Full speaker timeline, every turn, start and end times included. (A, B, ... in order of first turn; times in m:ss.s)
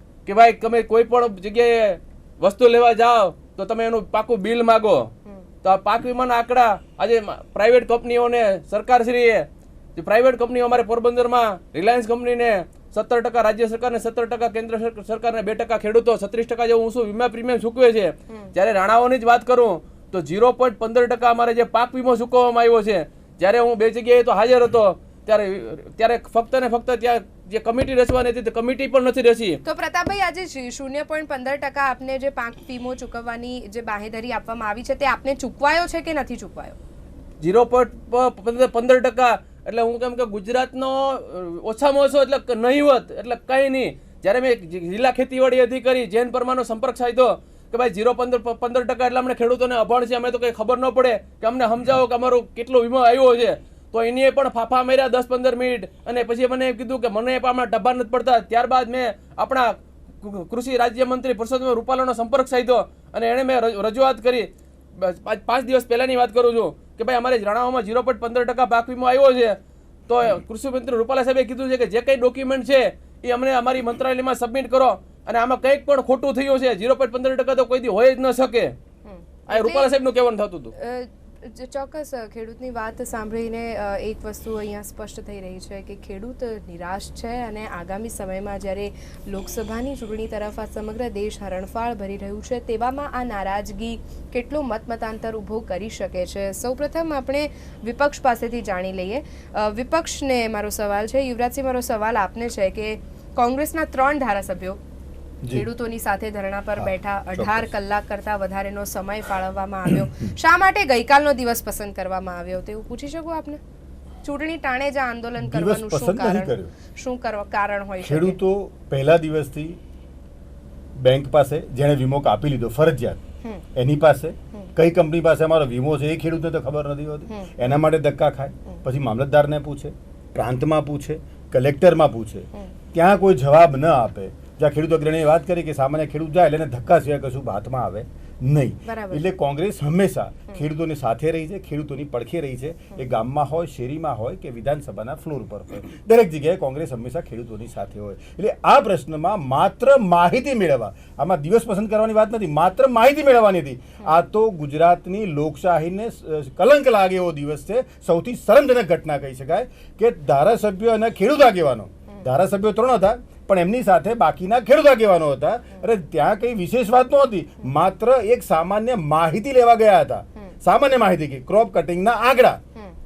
0:00.2-0:05.1 A
0:05.6-0:29.6 A
0:29.6-0:36.8 B
0:37.4-1:18.7 A
1:19.0-1:19.9 B
1:19.5-1:20.7 A
1:20.8-1:44.8 B
1:45.5-1:53.6 B
1:46.8-1:47.6 C
1:54.2-1:58.4 B
1:55.4-1:56.7 C
1:58.0-1:59.8 C
2:01.0-2:03.2 C
2:03.7-2:52.6 C
2:18.8-2:19.2 B